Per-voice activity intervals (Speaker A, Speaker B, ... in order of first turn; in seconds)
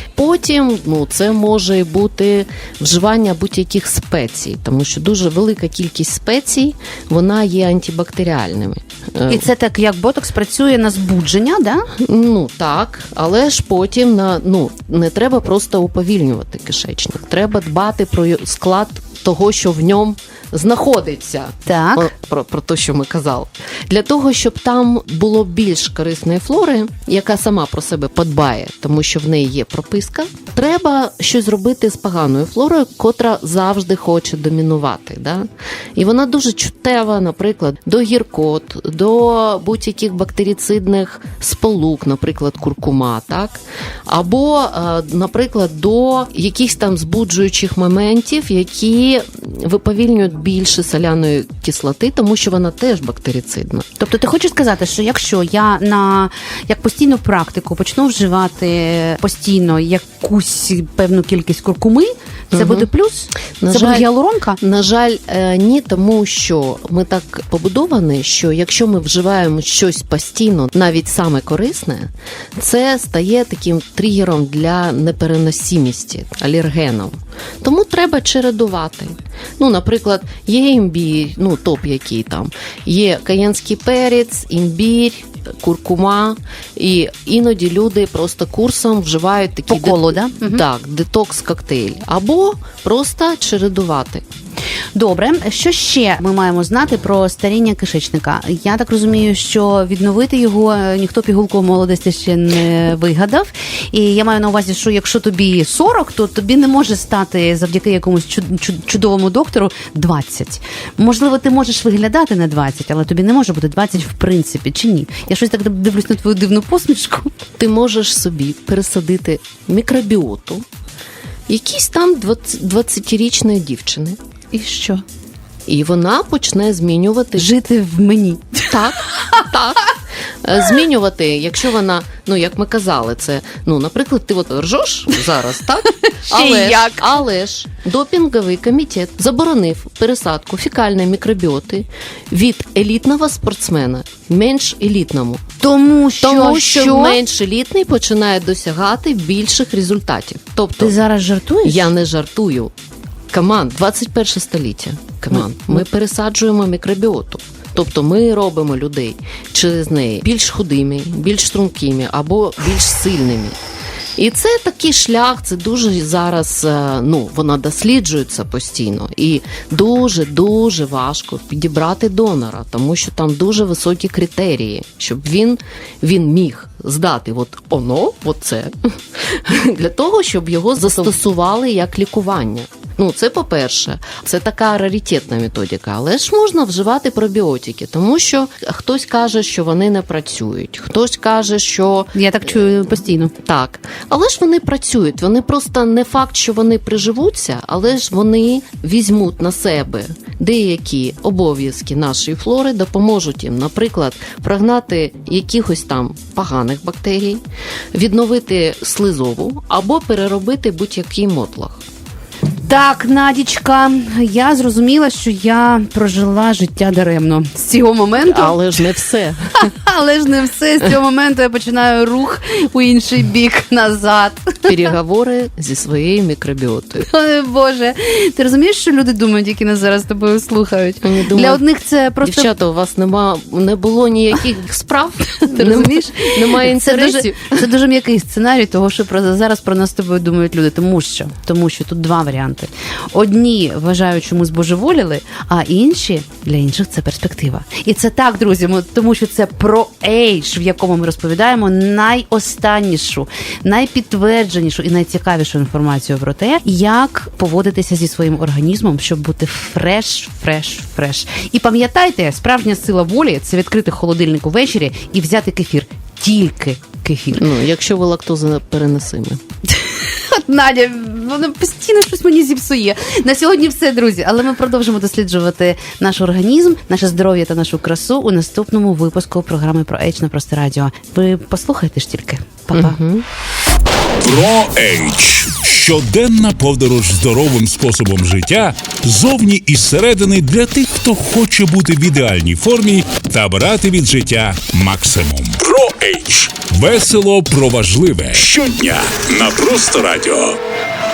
Speaker A: 0.1-9.5, 12.0-53.9, 62.5-62.9, 63.6-64.1, 64.6-94.2, 117.6-120.6, 121.5-124.2, 125.7-127.5, 128.7-145.4, 146.2-151.0, 151.6-152.7, 153.3-163.6, 164.2-192.2, 193.4-207.4, 207.9-211.8, 218.2-219.5, 224.7-227.1, 231.0-231.6, 232.2-237.6, 267.3-269.4, 282.7-283.2
Speaker B: 9.3-11.9, 21.7-22.1, 54.0-64.6, 89.7-90.6, 95.0-117.3, 124.5-125.0, 127.4-128.8, 136.0-137.1, 145.6-147.2, 150.8-151.9, 155.3-155.8, 192.1-193.3, 212.6-218.6, 219.6-224.8, 227.0-232.5, 235.4-267.5, 269.7-283.0
Speaker C: 284.2-300.6